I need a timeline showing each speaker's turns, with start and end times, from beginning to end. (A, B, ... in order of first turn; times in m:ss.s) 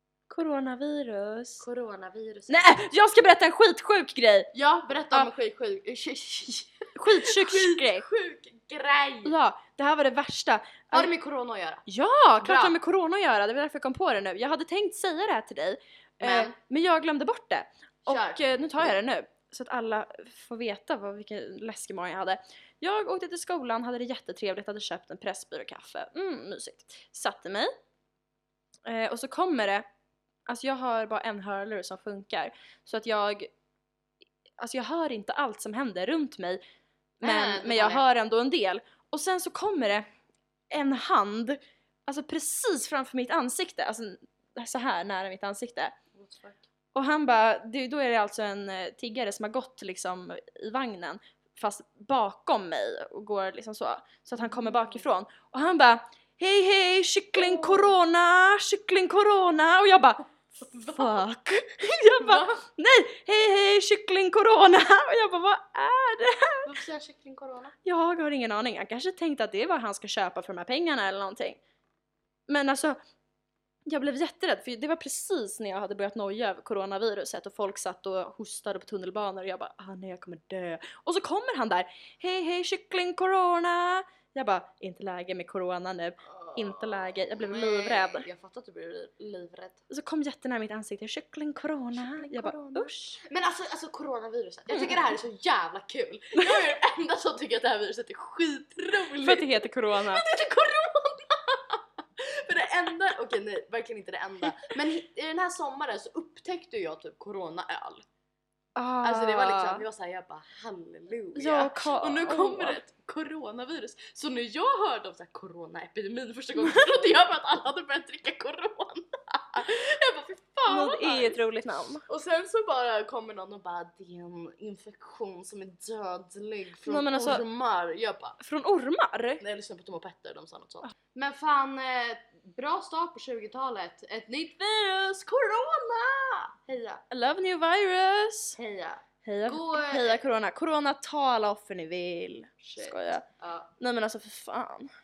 0:00.3-0:01.6 A
0:01.6-0:02.6 B
0:02.5-0:04.5 A
0:04.5-0:09.3 B
0:07.0-0:08.0 A
0:09.2-0:11.1 A
0:10.9-0:11.8 B
0:11.9-0:27.7 A
0:12.4-0:12.8 B
0:16.2-0:16.6 B
0:18.0-0:18.9 B
0:28.8-0:29.8 A
0:30.5-0:33.5 A
0:34.6-0:36.6 A
0:37.2-0:38.0 B
0:37.2-0:40.0 A
0:40.7-0:45.9 A
0:46.1-0:46.6 B
0:46.9-1:06.7 A
0:54.4-0:55.0 B
0:57.4-0:57.9 B
1:00.7-1:01.1 B
1:02.2-1:02.6 B
1:06.6-1:07.7 B
1:07.8-1:11.6 A
1:12.5-1:13.0 A
1:13.9-1:28.3 A
1:26.3-1:29.8 B
1:29.9-1:33.2 A
1:31.9-1:48.0 B
1:39.2-1:40.2 A
1:48.7-1:49.8 A
1:49.0-2:01.4 B
1:51.3-1:52.8 A
2:00.6-2:02.0 A
2:02.1-2:08.4 B
2:06.8-2:07.4 A
2:08.4-2:09.4 A
2:09.4-2:17.0 B
2:17.1-2:18.6 A
2:18.6-2:20.2 B
2:19.2-2:23.2 A
2:22.6-2:23.7 B
2:23.8-2:24.9 A